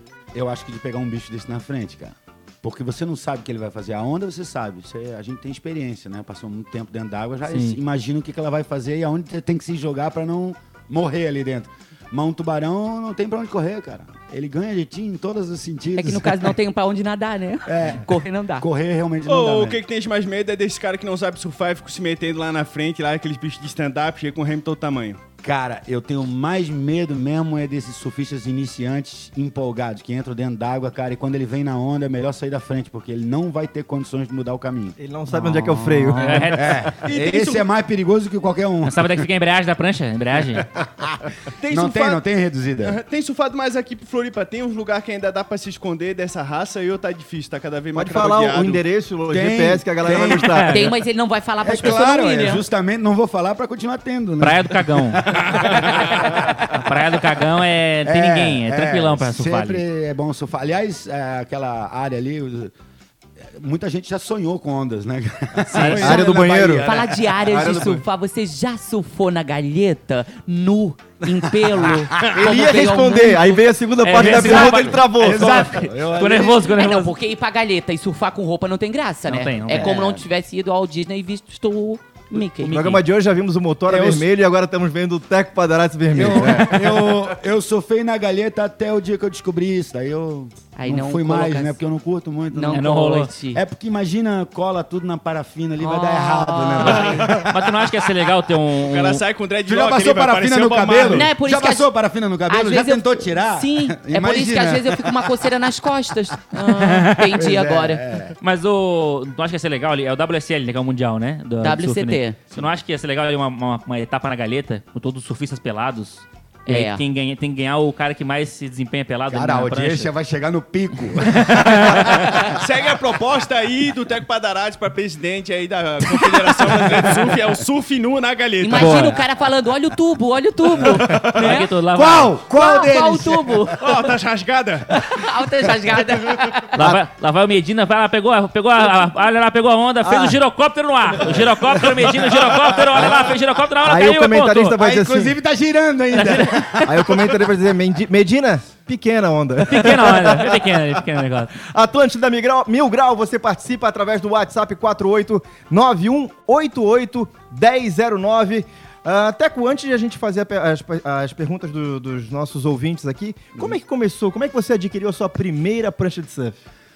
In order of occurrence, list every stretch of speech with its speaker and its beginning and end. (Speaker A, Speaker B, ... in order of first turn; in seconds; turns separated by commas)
Speaker A: 0.3-16.5, Speaker B: 7.4-7.8, Speaker C: 15.9-18.6, Speaker A: 17.6-19.8, Speaker D: 19.2-25.2, Speaker A: 25.4-39.2, Speaker E: 35.0-36.8, Speaker B: 36.2-36.8, Speaker D: 37.0-37.6, Speaker B: 38.8-40.7, Speaker A: 40.8-43.0, Speaker D: 41.6-42.2, Speaker D: 42.8-48.8, Speaker E: 47.9-50.8, Speaker A: 49.3-50.6, Speaker B: 50.3-50.9, Speaker C: 50.7-52.6, Speaker A: 51.6-56.9, Speaker B: 54.4-59.8, Speaker A: 58.0-62.7, Speaker A: 63.5-67.2, Speaker B: 65.7-66.3, Speaker E: 66.0-68.0, Speaker C: 66.8-73.7, Speaker A: 71.7-72.4, Speaker E: 72.2-75.7, Speaker B: 74.0-77.1, Speaker A: 74.2-76.7, Speaker C: 76.6-83.0, Speaker B: 79.3-79.9, Speaker A: 79.8-80.2, Speaker E: 82.6-87.1, Speaker A: 83.9-84.2, Speaker A: 86.1-92.9, Speaker C: 90.7-91.8, Speaker C: 92.5-93.6, Speaker B: 92.7-93.3, Speaker A: 93.5-97.7, Speaker C: 95.8-97.3, Speaker B: 96.9-99.2, Speaker D: 97.1-97.5, Speaker D: 98.8-101.3, Speaker A: 99.7-105.4, Speaker C: 101.1-101.9, Speaker C: 102.5-108.0, Speaker B: 106.7-107.3, Speaker A: 107.4-108.3, Speaker B: 108.4-120.1, Speaker C: 111.6-112.4, Speaker C: 116.7-117.0, Speaker A: 119.3-122.6, Speaker B: 121.2-122.3, Speaker D: 122.5-129.2, Speaker C: 128.6-131.7, Speaker E: 128.7-129.1, Speaker D: 131.0-131.4, Speaker B: 131.2-132.4, Speaker A: 131.9-133.9, Speaker C: 132.5-133.8, Speaker D: 133.8-134.9, Speaker C: 134.9-136.7, Speaker B: 136.7-144.8, Speaker E: 140.0-140.4, Speaker A: 142.9-143.3, Speaker E: 143.8-145.4, Speaker A: 144.7-147.4, Speaker B: 146.1-146.7, Speaker E: 146.8-151.0, Speaker B: 149.7-151.5, Speaker E: 151.6-166.6